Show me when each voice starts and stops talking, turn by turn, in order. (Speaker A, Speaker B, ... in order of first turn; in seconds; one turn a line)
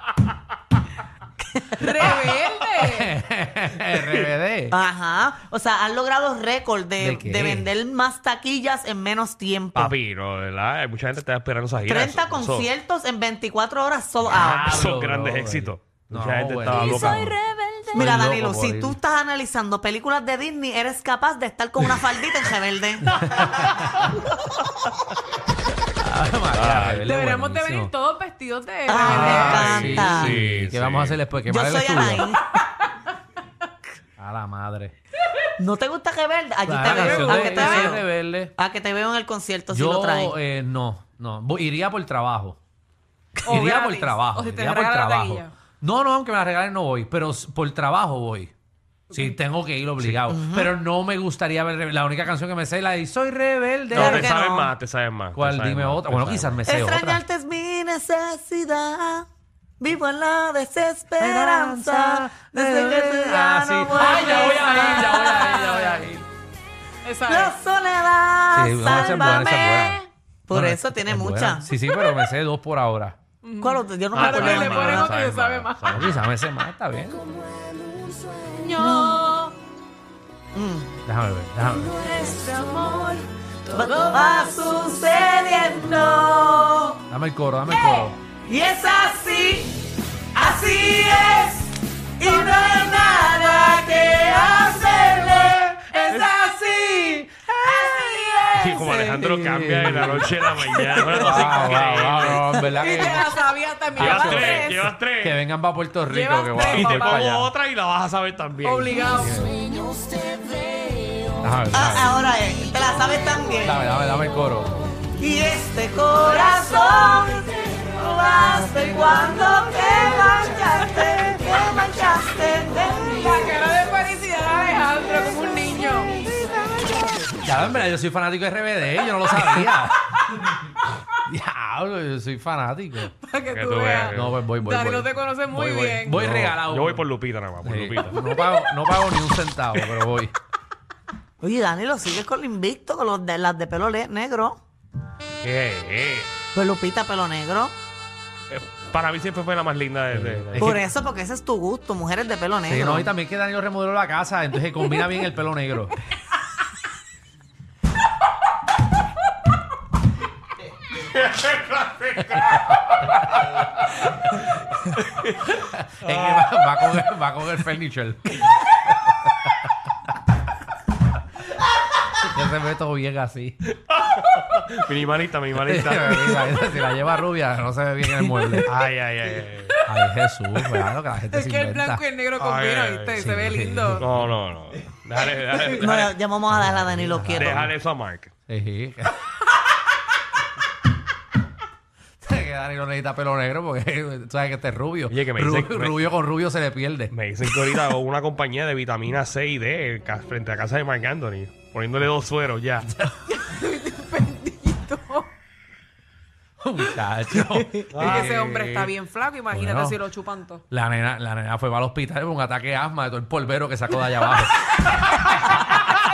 Speaker A: 1.4-2.4
Speaker B: 1.8-3.1
Speaker C: 2.8-4.8
Speaker A: 4.7-9.9
Speaker C: 7.0-7.7
Speaker D: 9.8-12.7
Speaker A: 11.9-14.8
Speaker C: 14.3-17.4
Speaker D: 14.6-17.4
Speaker B: 17.0-17.9
Speaker A: 17.9-23.1
Speaker C: 17.9-19.0
Speaker C: 23.1-24.1
Speaker C: 26.0-27.9
Speaker D: 26.5-27.1
Speaker B: 27.1-30.0
Speaker A: 28.9-30.3
Speaker C: 28.9-32.3
Speaker D: 29.0-31.2
Speaker A: 31.5-32.4
Speaker C: 34.2-34.9
Speaker A: 35.6-38.0
Speaker C: 36.7-38.5
Speaker B: 36.8-38.0
Speaker A: 38.6-40.4
Speaker C: 39.7-42.6
Speaker B: 43.4-45.5
Speaker C: 43.5-48.5
Speaker C: 49.1-54.3
Speaker A: 50.3-50.7
Speaker A: 53.9-54.7
Speaker D: 53.9-56.6
Speaker C: 55.3-57.2
Speaker A: 56.7-59.3
Speaker A: 59.8-65.6
Speaker C: 61.2-66.3
Speaker B: 64.4-66.0
Speaker B: 67.0-67.6
Speaker A: 67.3-69.9
Speaker C: 68.5-70.0
Speaker A: 70.5-71.7
Speaker C: 70.5-73.2
Speaker B: 73.4-75.9
Speaker A: 73.6-75.2
Speaker D: 74.1-76.2
Speaker C: 75.9-77.3
Speaker B: 78.0-79.5
Speaker A: 78.8-79.2
Speaker A: 80.5-80.9
Speaker C: 81.1-81.9
Speaker B: 81.9-83.3
Speaker A: 83.7-87.0
Speaker C: 87.1-88.2
Speaker A: 87.8-96.2
Speaker B: 95.9-99.2
Speaker A: 97.6-98.7
Speaker D: 98.5-102.4
Speaker C: 98.8-103.3
Speaker B: 101.0-101.5
Speaker A: 102.3-102.6
Speaker B: 102.8-104.9
Speaker C: 104.0-107.5
Speaker D: 104.0-105.4
Speaker B: 106.1-107.3
Speaker D: 106.6-108.9
Speaker B: 108.6-111.3
Speaker C: 109.2-109.6
Speaker C: 111.4-112.2
Speaker A: 111.7-113.8
Speaker C: 113.6-114.8
Speaker A: 115.2-123.4
Speaker B: 123.1-126.4
Speaker C: 127.4-130.0
Speaker B: 129.3-129.8
Speaker C: 131.3-133.1
Speaker B: 133.1-136.2
Speaker D: 133.5-134.4
Speaker C: 134.1-137.1
Speaker D: 136.1-138.2
Speaker C: 137.6-140.3
Speaker A: 141.4-144.6
Speaker D: 145.4-146.3
Speaker A: 146.5-147.7
Speaker D: 148.5-150.8
Speaker C: 150.1-150.9
Speaker A: 150.6-153.1
Speaker C: 152.7-155.9
Speaker D: 161.2-163.7
Speaker C: 165.6-168.5
Speaker D: 166.0-166.5
Speaker C: 172.1-173.6
Speaker D: 173.9-176.5
Speaker C: 175.6-178.7
Speaker D: 178.7-179.8
Speaker C: 179.9-182.0
Speaker B: 181.3-184.1
Speaker D: 182.4-183.2
Speaker C: 183.2-184.2
Speaker D: 184.0-186.2
Speaker A: 185.6-187.7
Speaker C: 186.5-187.7
Speaker D: 187.3-188.3
Speaker C: 188.5-189.3
Speaker C: 192.2-197.1
Speaker D: 195.1-196.1
Speaker D: 197.1-202.9
Speaker C: 202.8-203.2
Speaker B: 203.4-205.3
Speaker C: 206.6-208.5
Speaker D: 207.9-208.9
Speaker B: 207.9-210.6
Speaker C: 209.5-210.0
Speaker C: 210.7-214.6